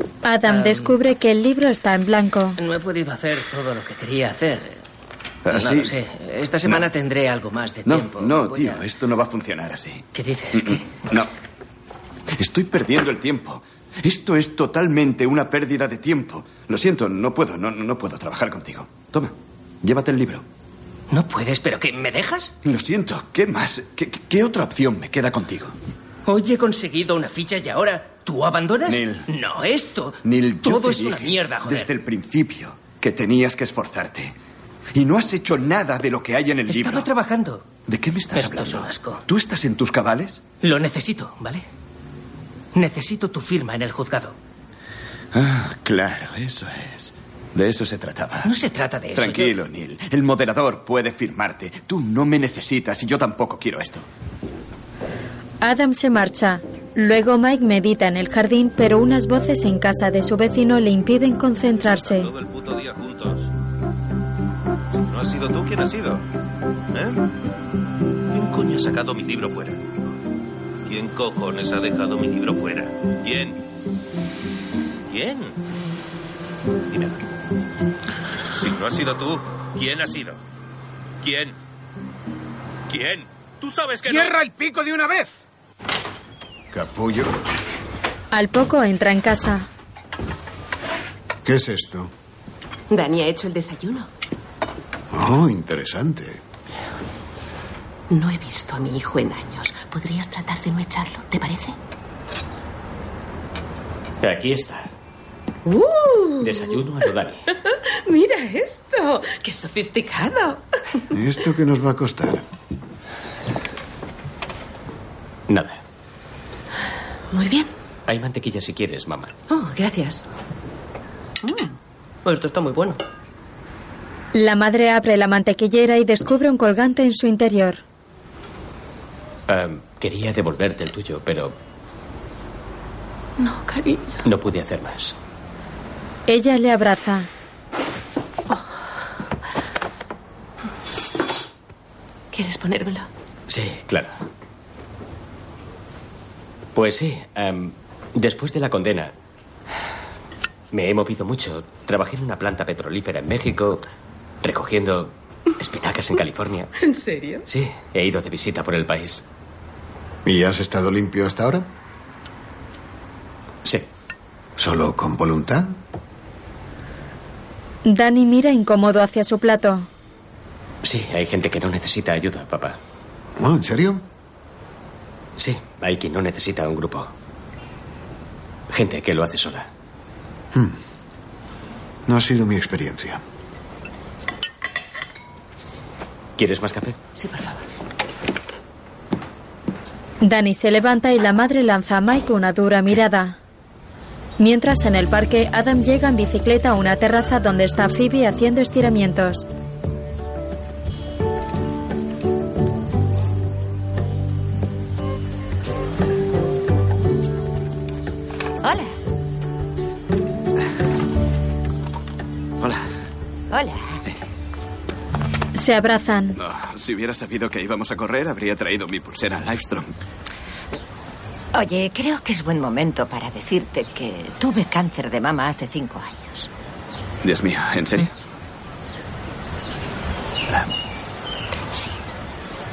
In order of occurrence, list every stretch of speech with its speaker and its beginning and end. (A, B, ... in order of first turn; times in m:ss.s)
0:00.2-0:02.6 A
0:00.5-0:01.0 B
0:02.6-0:04.8 B
0:05.4-0:06.0 C
0:05.5-0:08.8 B
0:07.8-0:11.3 C
0:10.2-0:10.9 B
0:12.4-0:20.4 C
0:21.1-0:22.5 B
0:22.6-0:25.8 C
0:26.3-0:31.9 B
0:28.8-0:29.3 C
0:30.2-0:34.4 C
0:35.0-0:37.1 C
0:36.7-0:37.6 B
0:37.9-0:40.4 C
0:38.3-0:39.2 B
0:40.6-0:41.6 B
0:42.7-0:44.4 B
0:45.3-0:48.5 C
0:48.4-0:49.6 B
0:49.1-0:54.1 C
0:55.6-1:02.3 A
1:01.8-1:03.5 D
1:05.0-1:06.3 D
1:06.9-1:07.3 D
1:08.3-1:09.8 D
1:10.8-1:13.6 D
1:15.1-1:15.6 D
1:16.9-1:17.2 D
1:18.5-1:20.4 D
1:21.2-1:21.6 D
1:22.9-1:25.2 D
1:26.7-1:27.4 E
1:28.3-1:29.7 A
1:31.4-1:32.1 E
1:32.9-1:34.1 F
1:35.1-1:36.4 E
1:38.1-1:41.8 F
1:44.2-1:44.9 G
1:45.7-1:47.1 F
1:46.4-1:47.4 G
1:47.6-1:50.6 F
1:51.1-1:52.4 E
1:55.5-1:55.8 G
1:57.3-1:57.7 F
1:58.1-1:59.3 G
1:59.5-2:00.2 F
2:01.4-2:03.0 F
2:04.3-2:07.8 A
2:09.5-2:11.6 G
2:13.4-2:14.2 F
2:14.2-2:15.2 G
2:16.3-2:17.3 A
2:22.3-2:23.1 F
2:23.5-2:24.1 G
2:26.8-2:29.1 G
2:30.7-2:33.8 G
2:34.4-2:36.7 G
2:36.8-2:37.5 F
2:37.5-2:39.2 G
2:40.2-2:41.7 E
2:44.6-2:45.8 E
2:47.8-2:49.9 A
2:50.8-2:52.8 G
2:53.4-2:54.0 E
2:55.4-2:57.1 G
2:58.7-2:59.7 G
3:00.5-3:00.8 E
3:02.1-3:03.2 E
3:06.4-3:07.0 G
3:07.2-3:07.6 F
3:10.2-3:13.4 A
3:14.4-3:19.5 A
3:28.6-3:28.9 H
3:33.5-3:34.0 H
3:35.6-3:36.4 A
3:36.4-3:40.0 C
3:41.5-3:46.5 H
3:47.2-3:48.1 C